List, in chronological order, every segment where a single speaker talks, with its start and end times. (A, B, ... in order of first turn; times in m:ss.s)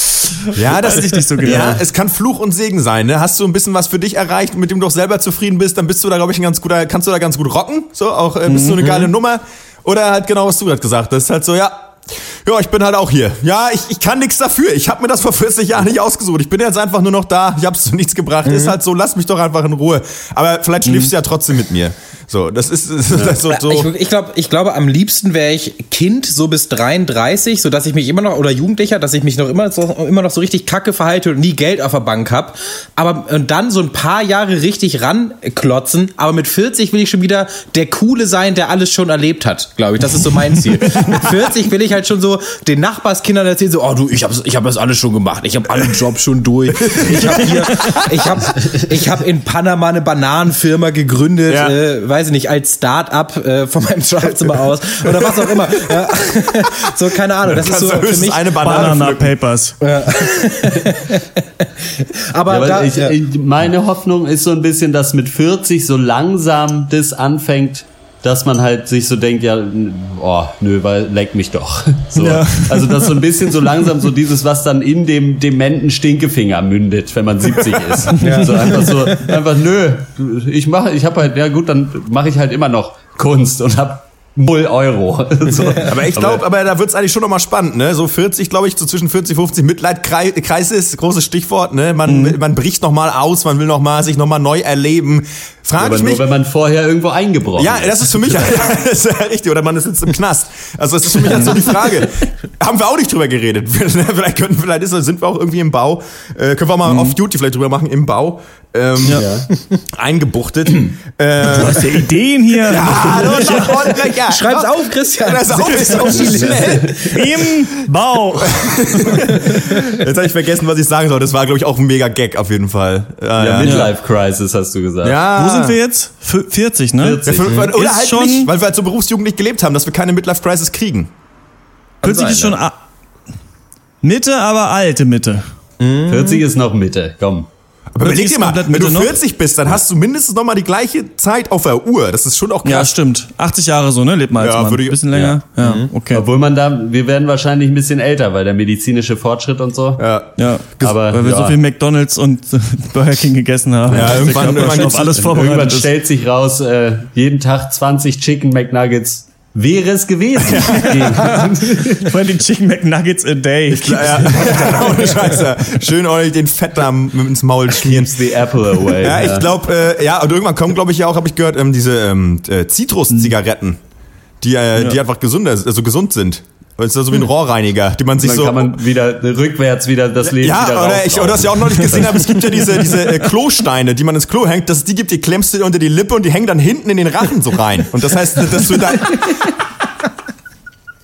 0:00.4-0:01.8 A
0:00.5-0:23.9 B
0:08.5-0:09.1 A
0:18.4-0:18.8 C
0:23.4-0:58.9 C
0:46.8-0:48.0 B
0:51.5-0:51.8 B
0:55.0-0:55.7 B
0:57.4-0:59.4 B
0:58.6-0:59.8 A
0:59.8-1:03.2 C
1:02.5-1:26.4 D
1:12.2-1:13.2 A
1:18.1-1:18.4 A
1:18.2-1:19.4 C
1:25.8-1:36.2 B
1:32.1-1:32.4 A
1:35.8-1:38.6 D
1:37.6-1:49.3 B
1:46.9-1:47.2 A
1:49.1-1:49.5 D
1:49.9-1:52.1 B
1:51.4-1:53.9 A
1:52.6-1:57.5 B
1:52.9-1:57.2 C
1:56.1-1:56.8 D
1:56.9-1:59.3 A
1:58.3-2:03.9 B
1:59.3-1:59.7 C
2:03.4-2:05.2 D
2:03.6-2:03.9 A
2:05.0-2:05.8 B
2:05.4-2:08.5 A
2:07.0-2:07.7 D
2:07.2-2:11.1 B
2:12.0-2:12.6 C
2:12.0-2:12.8 A
2:14.0-2:15.4 A
2:15.8-2:16.4 C
2:16.1-2:17.5 D
2:17.9-2:22.9 B
2:18.0-2:19.2 A
2:22.6-2:26.2 A
2:24.4-2:25.0 B
2:25.1-2:25.4 D
2:25.6-2:25.9 C
2:26.1-2:30.1 D
2:30.0-2:30.9 B
2:30.4-2:35.9 A
2:30.8-2:31.6 D
2:33.9-2:42.1 D
2:33.9-2:35.2 B
2:40.5-2:40.9 B
2:40.7-2:44.6 A
2:43.7-2:48.2 B
2:47.8-2:49.5 D
2:48.8-2:53.8 B
2:54.4-2:58.8 B
2:58.2-3:02.4 D
3:00.3-3:09.4 B